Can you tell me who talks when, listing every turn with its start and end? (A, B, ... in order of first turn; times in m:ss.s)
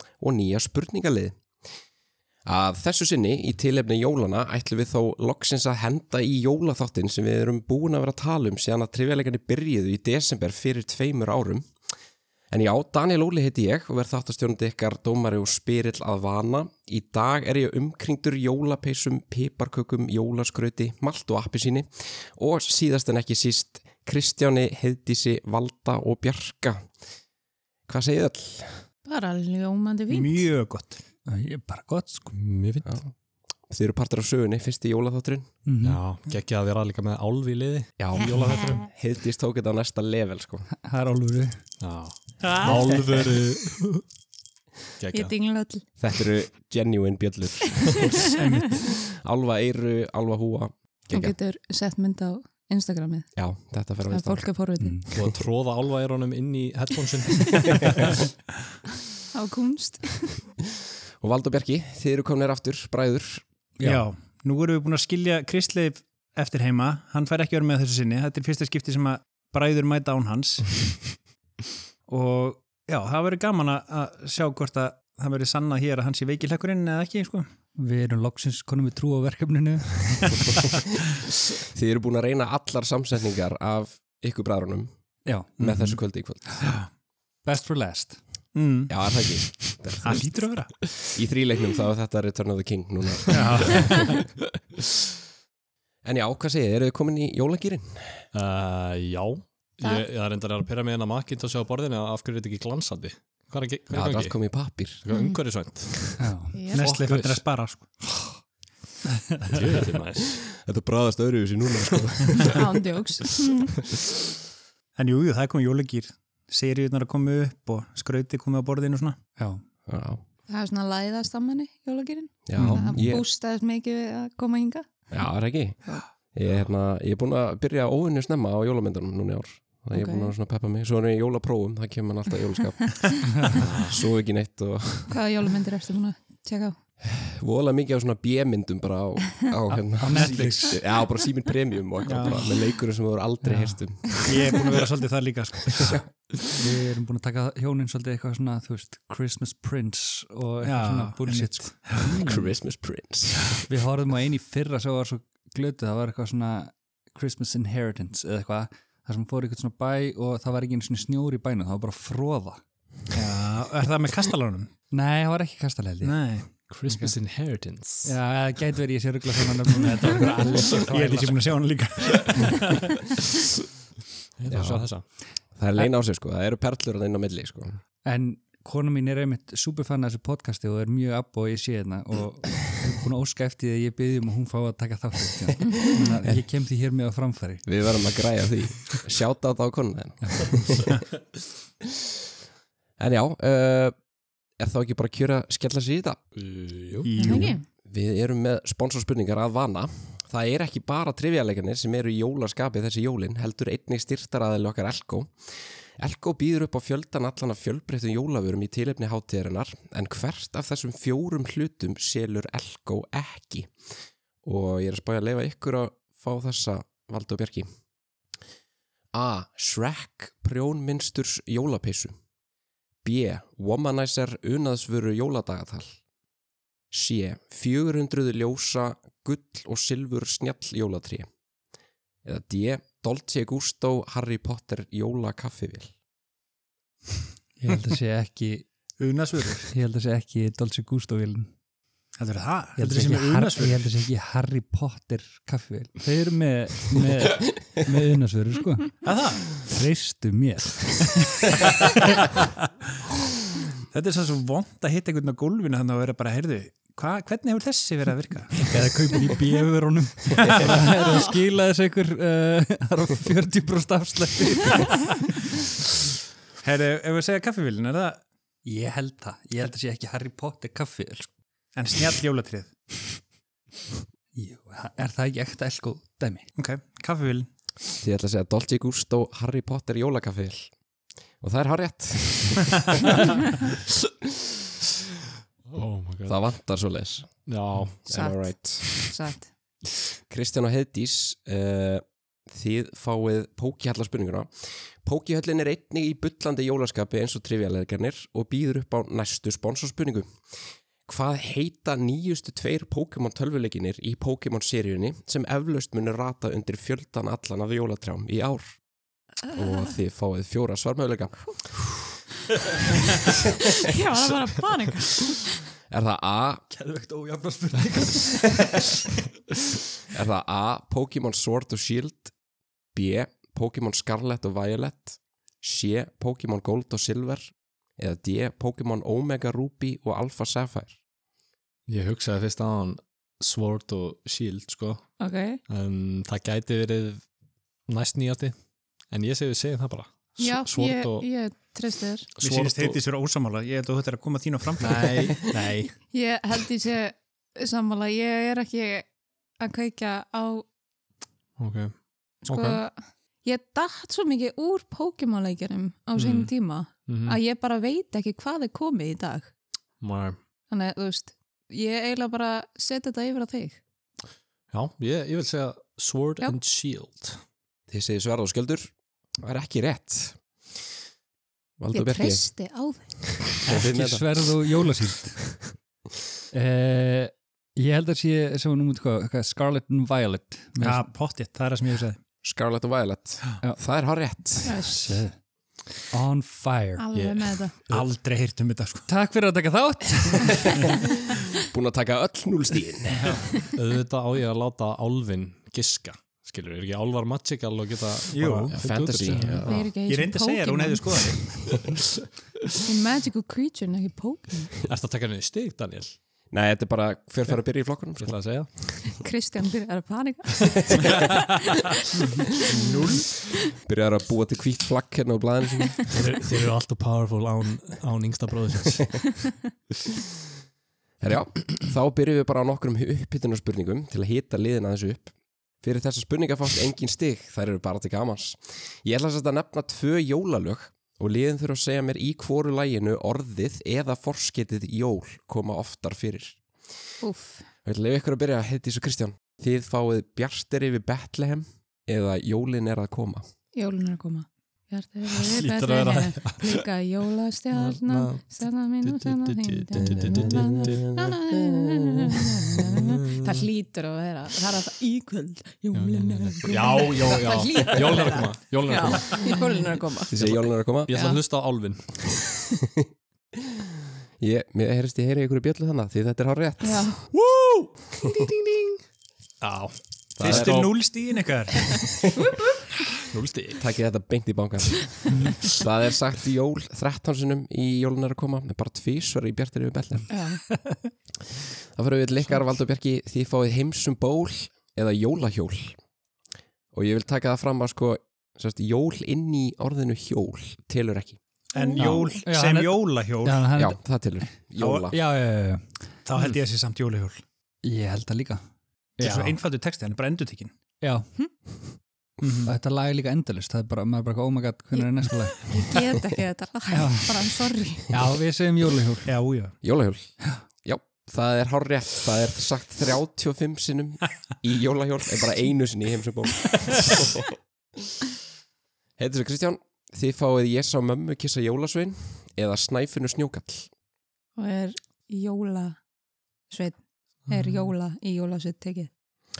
0:00.2-0:01.4 A
0:02.4-0:11.7 A
0:12.5-0:26.9 A
0:27.9-0:28.8 A
0:29.0-0:30.4 B
0:30.1-0:31.0 C
0:31.2-0:32.3 D
0:32.3-0:32.9 E
0:32.8-0:33.1 A
0:33.7-0:35.5 A
0:35.6-0:36.0 D
0:35.8-0:38.8 E
0:38.0-0:40.7 A
0:40.7-0:41.6 D
0:41.8-0:44.0 E
0:42.4-0:42.9 C
0:45.0-0:45.3 E
0:45.1-0:45.9 B
0:46.0-0:48.3 A
0:47.8-0:48.4 B
0:48.3-0:48.8 C
0:48.9-0:51.3 A
0:51.1-0:53.3 B
0:53.4-0:54.5 A
0:54.1-0:55.1 B
0:54.8-0:55.0 D
0:55.1-0:58.1 E
0:55.1-0:55.4 A
0:59.3-1:00.5 B
1:01.2-1:03.4 A
1:03.8-1:04.0 D
1:03.8-1:11.0 C
1:12.1-1:17.5 C
1:17.8-1:20.3 D
1:21.5-1:24.9 A
1:25.2-1:26.0 D
1:25.6-1:26.7 A
1:26.6-1:26.9 C
1:27.4-1:28.2 D
1:28.5-1:28.9 C
1:28.9-1:30.2 A
1:30.0-1:30.8 C
1:31.0-1:34.1 A
1:33.3-1:34.2 C
1:36.0-1:38.3 A
1:38.3-1:47.4 E
1:43.9-1:45.0 A
1:45.1-1:45.4 B
1:46.2-1:46.6 D
1:46.5-1:46.8 B
1:46.7-1:48.0 C
1:49.5-1:50.4 E
1:50.4-1:52.6 A
1:52.5-1:53.7 B
1:55.0-1:59.2 C
1:59.9-2:00.2 A
2:00.5-2:05.1 B
2:02.4-2:03.2 A
2:02.6-2:02.8 C
2:02.6-2:03.0 D
2:05.1-2:15.2 A
2:09.9-2:10.3 B
2:13.6-2:14.0 E
2:15.1-2:16.8 B
2:17.0-2:24.3 A
2:19.7-2:20.8 D
2:20.1-2:20.6 C
2:22.0-2:22.4 C
2:23.4-2:23.8 D
2:24.2-2:26.0 C
2:26.5-2:32.5 D
2:30.6-2:32.1 C
2:32.1-2:33.5 A
2:33.6-2:42.6 D
2:43.1-2:44.7 C
2:44.9-2:46.2 D
2:46.0-2:47.1 C
2:46.7-2:48.1 E
2:48.0-2:51.5 D
2:50.7-2:53.0 C
2:54.4-2:55.0 E
2:54.5-2:54.9 A
2:55.4-2:57.8 A
2:58.0-3:07.7 D
3:07.6-3:10.9 A
3:13.0-3:13.9 A
3:14.6-3:16.2 A
3:16.3-3:17.4 E
3:17.0-3:17.5 C
3:17.2-3:17.6 B
3:17.8-3:33.7 A
3:34.4-3:37.7 A
3:39.1-3:42.2 A
3:43.0-3:46.0 A
3:46.9-3:51.3 A
3:52.2-3:55.9 A
3:57.6-3:58.6 D
3:59.0-3:59.7 C
3:59.7-4:01.5 D
4:02.2-4:03.9 C
4:02.8-4:11.9 D
4:09.0-4:09.6 C
4:13.9-4:18.7 C
4:18.6-4:25.2 D
4:20.4-4:20.8 C
4:26.6-4:28.2 C
4:28.6-4:31.3 D
4:31.7-4:32.7 C
4:34.3-4:36.4 D
4:36.5-4:37.5 C
4:38.0-4:40.7 A
4:41.4-4:43.2 A
4:45.7-4:46.5 E
4:46.3-4:47.5 A
4:47.4-4:48.0 E
4:48.0-4:49.5 B
4:48.1-4:49.1 A
4:50.3-5:00.3 A
5:01.0-5:08.7 A
5:09.5-5:12.0 A
5:13.7-5:15.6 B
5:15.9-5:16.6 A
5:16.7-5:18.8 D
5:20.1-5:22.3 A
5:22.9-5:31.0 A
5:31.9-5:35.1 E
5:35.2-5:35.6 B
5:35.6-5:37.2 E
5:37.8-5:38.6 E
5:39.1-5:41.2 E
5:40.4-5:42.3 B
5:42.4-5:43.0 E
5:42.4-5:45.4 C
5:44.8-5:46.0 E
5:45.9-5:49.0 B
5:49.6-5:50.6 B
5:51.6-5:52.8 E
5:52.4-5:59.5 B
5:56.2-5:56.5 E
5:57.0-5:57.4 E
6:00.0-6:00.4 E
6:00.7-6:03.8 B
6:04.7-6:07.4 E
6:07.9-6:10.4 A
6:11.8-6:12.4 A
6:11.9-6:13.3 B
6:13.3-6:14.5 A
6:13.7-6:15.4 D
6:16.5-6:21.1 D
6:20.8-6:22.2 C
6:22.4-6:24.8 A
6:24.6-6:25.2 B
6:24.9-6:27.0 D
6:27.0-6:27.8 B
6:27.1-6:28.1 E
6:27.9-6:29.1 C
6:29.1-6:30.8 D
6:31.6-6:33.5 A
6:33.2-6:33.5 C
6:33.7-6:39.8 E
6:38.3-6:38.7 C
6:38.7-6:39.9 A
6:39.6-6:41.3 B
6:40.0-6:41.6 C
6:42.8-6:44.8 B
6:44.8-6:46.2 E
6:46.5-6:48.4 A
6:48.2-6:48.9 E
6:49.0-6:51.4 B
6:52.7-6:53.3 C
6:53.8-6:56.1 A
6:56.1-6:59.2 E
7:01.2-7:16.6 A
7:17.2-7:17.6 B
7:17.8-7:23.4 A
7:23.7-7:40.3 B
7:25.3-7:26.8 E
7:27.7-7:31.0 E
7:30.0-7:32.5 A
7:32.8-7:33.7 E
7:35.9-7:39.6 E
7:40.3-7:41.1 A
7:40.3-7:42.4 E
7:41.1-7:41.4 B
7:44.4-7:47.2 A
7:46.8-7:47.2 B
7:47.3-7:49.0 E
7:49.6-7:51.0 E
7:50.4-7:50.8 A
7:50.4-7:51.9 C
7:53.3-7:53.9 E
7:53.8-8:00.3 A
8:00.3-8:00.6 B
8:01.9-8:06.0 A
8:06.9-8:11.4 A
8:11.7-8:13.6 C
8:11.7-8:12.3 B
8:12.0-8:12.3 E
8:12.4-8:14.0 D
8:13.7-8:15.2 A
8:14.8-8:15.1 C
8:15.1-8:16.5 D
8:16.2-8:17.4 C
8:17.8-8:18.6 D
8:19.2-8:19.6 D
8:19.2-8:20.7 C
8:21.0-8:21.3 D
8:22.4-8:22.7 C
8:22.6-8:25.8 D
8:25.6-8:28.1 B
8:26.9-8:27.3 D
8:28.1-8:29.3 D
8:29.2-8:29.7 C
8:29.8-8:37.5 A
8:39.2-8:43.9 A
8:44.6-8:46.0 B
8:46.6-8:49.1 B
8:47.4-8:47.8 E